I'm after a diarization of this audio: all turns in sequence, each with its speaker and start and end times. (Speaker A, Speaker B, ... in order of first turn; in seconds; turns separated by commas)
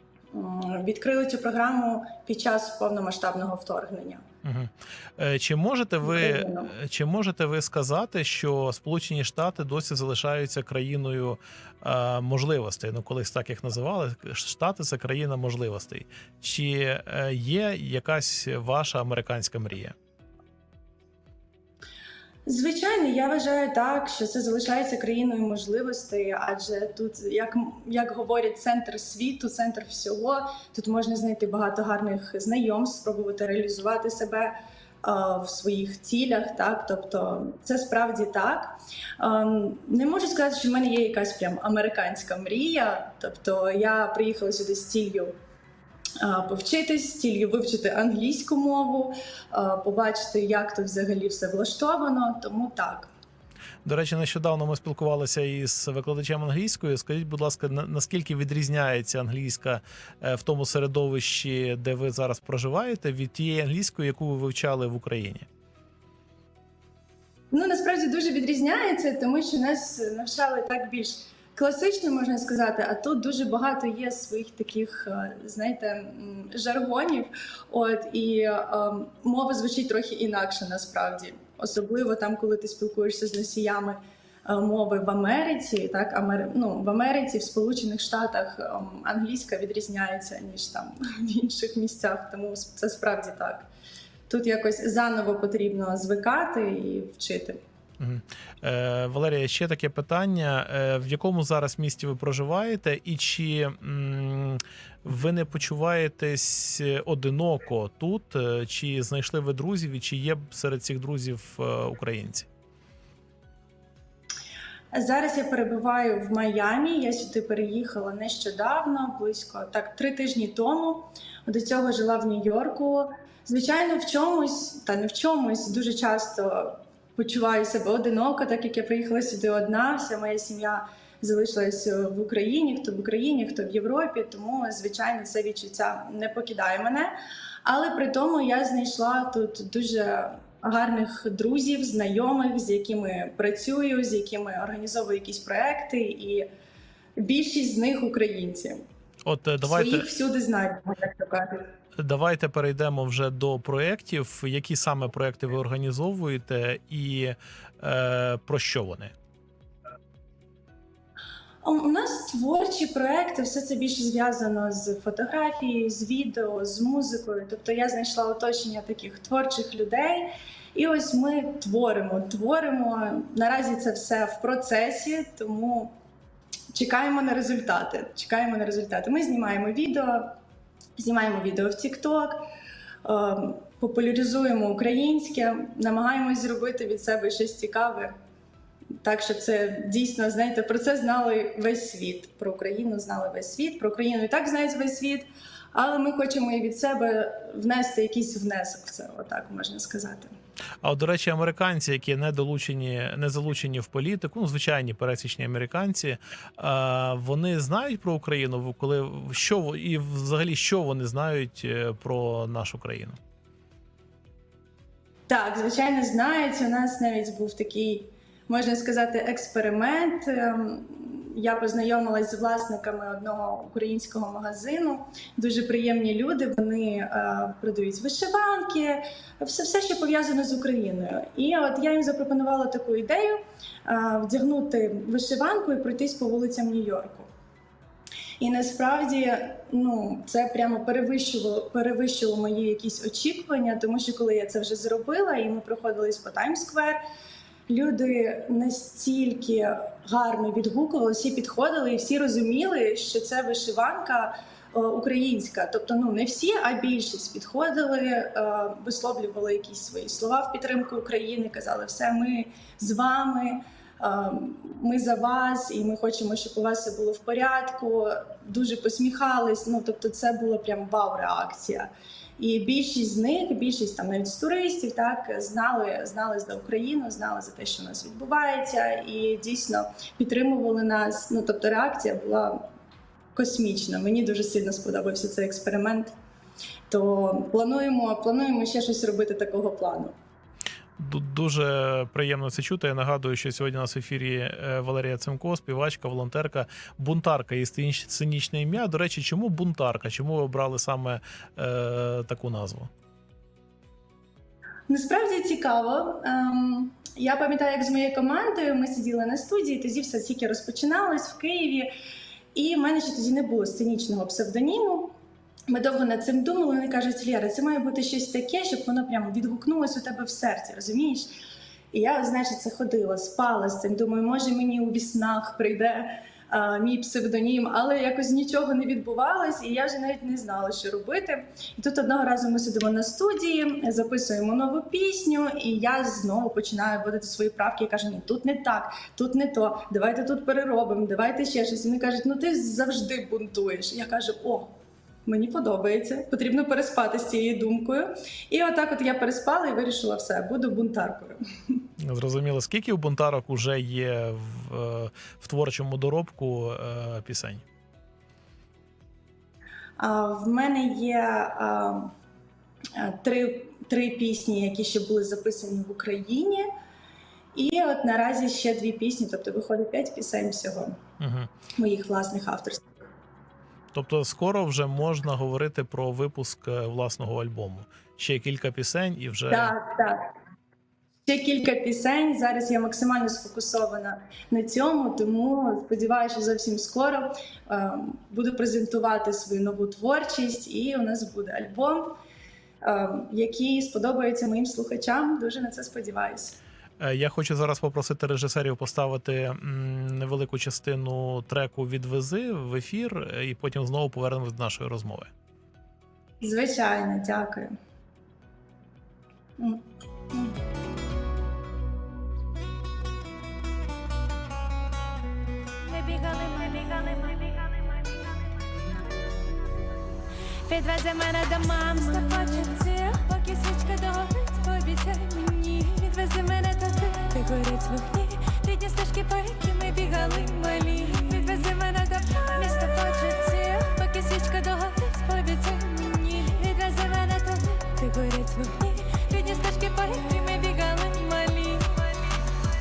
Speaker A: 0.3-4.2, Speaker B: 4.4-19.9, Speaker A: 6.0-6.7, Speaker A: 22.4-45.3, Speaker A: 46.2-53.1, Speaker B: 53.8-65.5, Speaker A: 67.5-93.7, Speaker A: 94.3-97.6, Speaker B: 98.0-112.5, Speaker A: 114.9-146.4, Speaker A: 147.2-148.8, Speaker B: 149.2-150.1, Speaker A: 149.6-151.6, Speaker B: 152.0-159.1, Speaker A: 161.6-175.9, Speaker A: 176.7-180.4, Speaker A: 181.0-182.4, Speaker A: 183.0-188.1, Speaker A: 189.0-200.3, Speaker B: 200.8-213.2, Speaker A: 215.3-237.3, Speaker A: 238.4-247.0, Speaker A: 247.7-282.6, Speaker A: 283.3-286.1, Speaker A: 286.9-290.1, Speaker B: 291.0-302.9, Speaker A: 304.9-311.9, Speaker A: 312.5-315.1, Speaker A: 315.7-321.4, Speaker A: 321.9-344.7, Speaker A: 345.2-351.4, Speaker B: 352.0-357.6, Speaker A: 360.0-362.1, Speaker A: 362.9-366.7, Speaker A: 367.5-370.9, Speaker B: 371.2-371.5, Speaker A: 371.8-372.9, Speaker B: 373.9-379.8, Speaker A: 379.5-380.2, Speaker A: 381.2-392.1, Speaker A: 392.8-396.6, Speaker B: 397.0-405.3, Speaker A: 406.4-407.7, Speaker A: 409.6-410.6, Speaker C: 415.9-418.2, Speaker C: 420.6-441.9